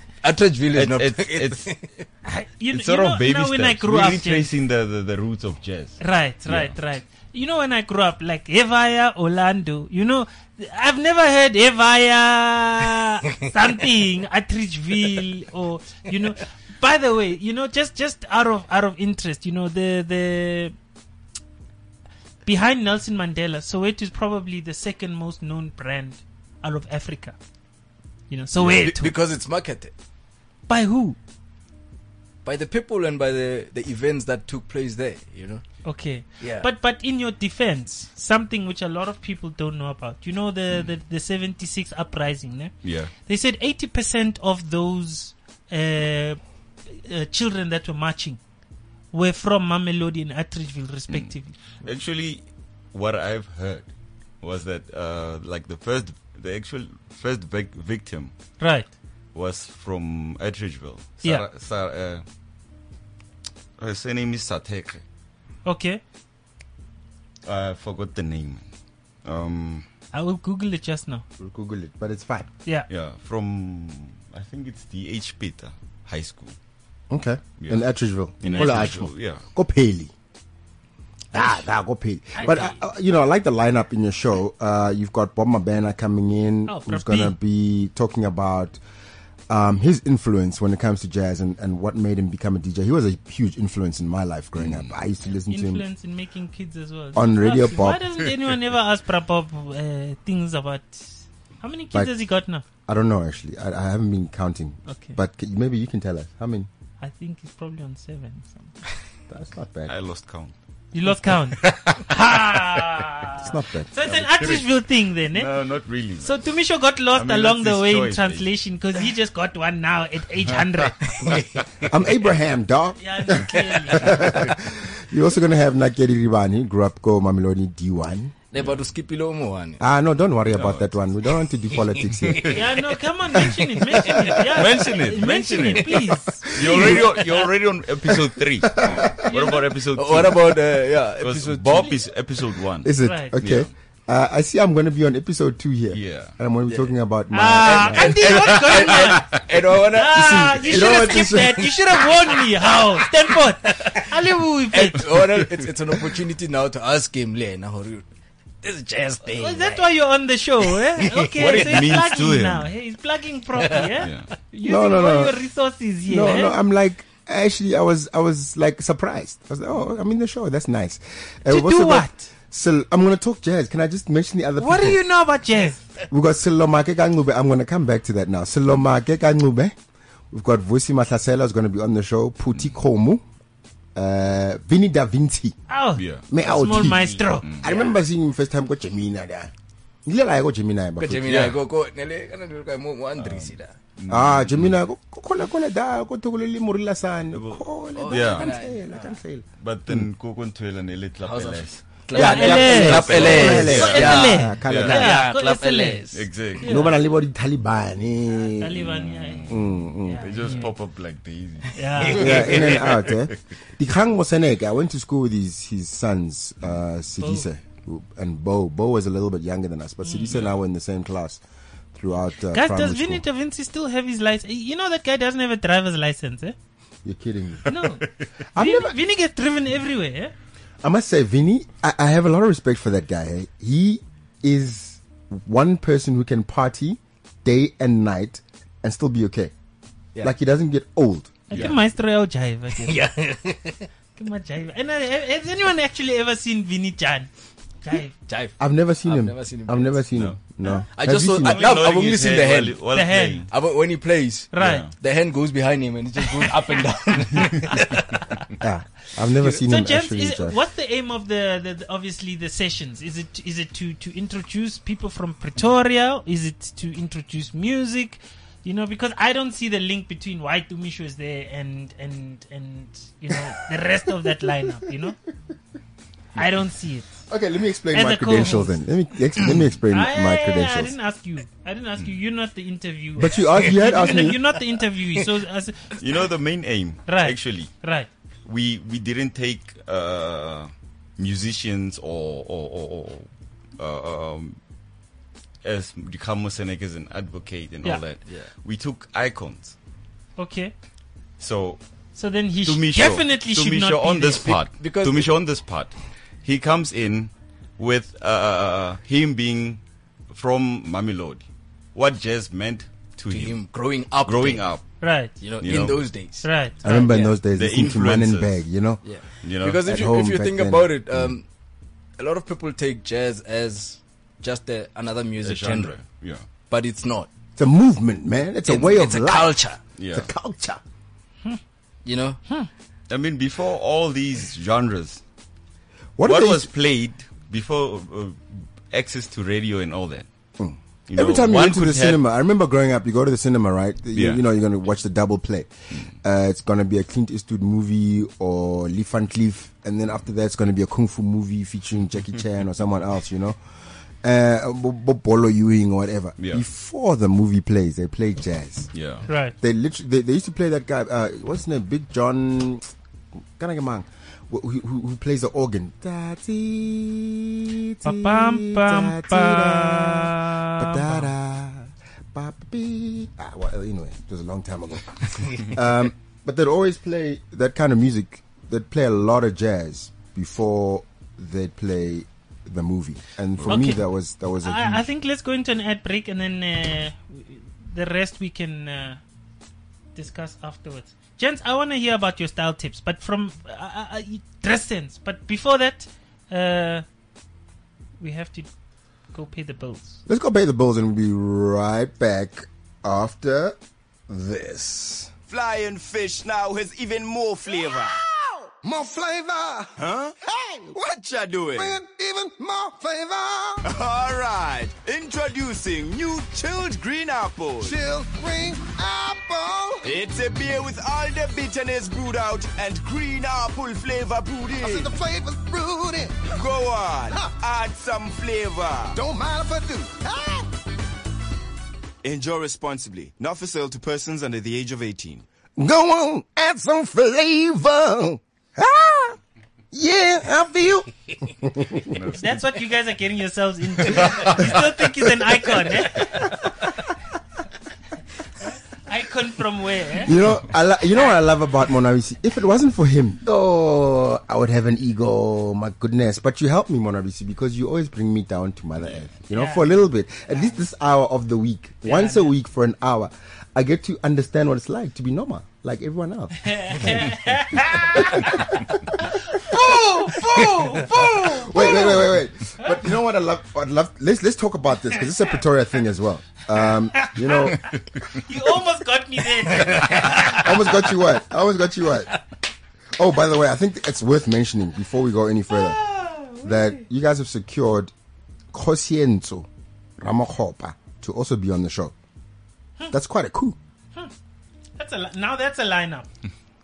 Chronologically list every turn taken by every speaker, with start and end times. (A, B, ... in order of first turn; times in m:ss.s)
0:00.2-0:02.0 A
0:00.7-0:01.7 B
0:02.2-0:04.5 C
0:02.7-0:06.7 B
0:06.0-0:20.7 C
0:22.4-0:27.4 C
0:28.3-0:29.2 C
0:28.6-0:29.9 A
0:30.7-0:31.2 C
0:32.4-0:35.6 A
0:35.8-0:48.4 C
0:36.4-0:36.7 A
0:42.8-0:43.1 B
0:49.1-0:51.5 C
0:51.8-0:53.9 B
0:54.4-0:58.3 B
0:58.6-0:58.9 C
0:59.3-1:02.2 B
1:03.8-1:05.0 B
1:05.6-1:06.0 C
1:07.4-1:08.6 B
1:09.2-1:09.8 B
1:10.1-1:11.2 C
1:11.4-1:12.5 D
1:12.9-1:16.6 B
1:17.1-1:20.1 D
1:17.6-1:17.9 B
1:18.4-1:19.4 B
1:18.5-1:19.0 C
1:21.3-1:28.8 D
1:21.3-1:21.6 C
1:22.4-1:22.8 C
1:26.7-1:27.4 C
1:29.5-1:35.8 D
1:34.6-1:34.9 B
1:35.5-1:42.6 C
1:37.1-1:38.0 D
1:42.9-1:46.7 D
1:44.9-1:45.2 C
1:47.0-1:48.8 C
1:49.3-1:49.9 D
1:49.9-1:50.5 B
1:50.9-1:55.5 C
1:53.4-1:53.9 D
1:54.0-1:54.8 B
1:55.3-1:56.4 B
1:56.2-2:01.4 C
1:57.1-1:58.5 B
2:00.5-2:00.9 B
2:01.2-2:01.6 A
2:01.9-2:08.3 D
2:03.0-2:04.3 C
2:08.5-2:09.8 A
2:09.8-2:12.6 D
2:10.5-2:10.9 B
2:11.9-2:12.6 A
2:12.5-2:17.0 C
2:13.9-2:14.2 A
2:14.4-2:20.6 B
2:16.5-2:17.5 A
2:18.7-2:19.2 D
2:19.2-2:19.7 C
2:19.9-2:22.0 A
2:21.2-2:23.7 B
2:22.8-2:28.4 D
2:23.0-2:23.4 C
2:25.9-2:26.3 B
2:26.7-2:26.9 A
2:27.3-2:29.4 C
2:27.6-2:34.1 A
2:28.3-2:29.2 B
2:29.9-2:35.2 C
2:30.1-2:31.8 D
2:34.7-2:38.1 A
2:38.6-2:39.9 A
2:39.3-2:46.6 C
2:40.6-2:42.0 A
2:41.4-2:42.7 B
2:43.6-2:43.9 A
2:44.0-2:44.3 B
2:44.6-2:45.4 D
2:46.0-2:55.0 D
2:51.5-2:52.3 C
2:54.6-2:55.9 C
2:56.1-2:59.8 D
3:00.3-3:03.2 D
3:04.0-3:05.6 D
3:05.7-3:07.7 C
3:06.0-3:06.2 B
3:06.3-3:09.5 D
3:07.6-3:07.9 A
3:10.0-3:11.5 D
3:11.0-3:13.8 A
3:11.3-3:11.6 B
3:13.2-3:14.8 B
3:14.1-3:20.1 D
3:17.3-3:18.6 B
3:18.0-3:19.2 A
3:19.6-3:21.8 B
3:21.2-3:26.3 A
3:22.1-3:25.3 D
3:22.1-3:27.0 C
3:22.4-3:25.0 B
3:26.1-3:26.9 B
3:26.6-3:28.9 D
3:28.6-3:30.7 C
3:28.8-3:33.2 B
3:29.5-3:30.4 D
3:31.7-3:32.7 C
3:32.0-3:32.8 A
3:32.1-3:41.4 D
3:37.2-3:37.5 C
3:40.0-3:40.4 C
3:41.9-3:43.2 D
3:42.5-3:46.6 C
3:47.0-3:47.7 D
3:47.7-3:50.3 C
3:48.5-3:49.0 D
3:50.8-3:59.5 D
4:00.2-4:01.5 D
4:01.5-4:03.1 C
4:01.5-4:01.8 B
4:02.8-4:03.9 A
4:04.2-4:07.3 C
4:07.8-4:08.1 C
4:08.3-4:10.0 A
4:08.6-4:11.8 D
4:10.1-4:10.4 B
4:11.0-4:12.8 A
4:11.4-4:13.5 B
4:12.9-4:13.5 C
4:13.5-4:18.2 A
4:14.5-4:14.9 C
4:14.6-4:14.9 B
4:18.6-4:20.6 D
4:19.6-4:35.2 C
4:36.4-4:37.1 C
4:37.3-4:41.0 D
4:37.9-4:38.8 C
4:39.9-4:46.0 C
4:43.2-4:44.4 D
4:46.0-4:47.7 B
4:47.1-4:48.1 C
4:48.5-4:53.3 B
4:53.8-4:54.6 B
4:55.6-4:59.7 B
4:58.3-4:58.5 A
5:00.4-5:00.7 C
5:01.4-5:01.8 B
5:02.2-5:04.6 C
5:02.6-5:11.4 B
5:04.7-5:05.3 A
5:12.0-5:14.8 B
5:13.3-5:14.7 A
5:15.0-5:15.3 C
5:15.4-5:17.3 A
5:15.6-5:16.1 B
5:16.4-5:17.3 C
5:16.8-5:19.0 D
5:17.5-5:18.6 B
5:19.0-5:21.5 A
5:19.4-5:19.9 B
5:19.8-5:21.3 D
5:22.2-5:26.0 A
5:25.4-5:26.4 B
5:26.7-5:27.3 A
5:27.6-5:29.6 D
5:28.6-5:29.8 A
5:30.0-5:30.3 B
5:30.1-5:30.8 D
5:32.0-5:32.4 A
5:33.1-5:35.2 B
5:36.2-5:36.7 D
5:36.2-5:40.3 B
5:40.6-5:53.6 D
5:41.1-5:42.2 B
5:44.2-5:44.4 B
5:54.2-5:58.9 D
5:56.4-5:56.6 B
5:58.9-5:59.3 B
5:59.3-5:59.6 C
5:59.6-6:02.9 D
6:03.6-6:25.0 D
6:08.0-6:11.3 C
6:23.7-6:24.0 C
6:24.6-6:29.2 C
6:30.2-6:37.0 C
6:38.2-6:38.7 C
6:39.3-6:40.2 C
6:40.3-6:43.8 D
6:44.3-6:45.3 D
6:45.5-6:48.2 E
6:47.7-6:51.0 D
6:50.0-6:50.4 E
6:50.9-6:52.0 E
6:51.8-6:53.8 D
6:53.8-6:58.0 E
6:57.8-7:00.1 D
7:00.0-7:05.1 E
7:04.8-7:06.5 D
7:06.4-7:09.2 E
7:09.2-7:10.7 D
7:12.2-7:15.4 E
7:15.8-7:19.4 D
7:19.9-7:22.4 D
7:22.1-7:22.5 B
7:22.3-7:26.7 C
7:28.6-7:30.4 C
7:30.2-7:58.0 D
7:39.5-7:39.9 C
7:40.5-7:40.8 C
7:42.0-7:42.6 C
7:46.6-7:53.0 C
7:57.2-8:01.1 C
7:59.9-8:00.4 A
8:00.2-8:02.3 D
8:03.2-8:06.0 D
8:05.7-8:07.0 C
8:06.6-8:08.1 D
8:08.7-8:09.7 D
8:10.2-8:12.1 D
8:13.1-8:13.8 D
8:15.0-8:16.3 C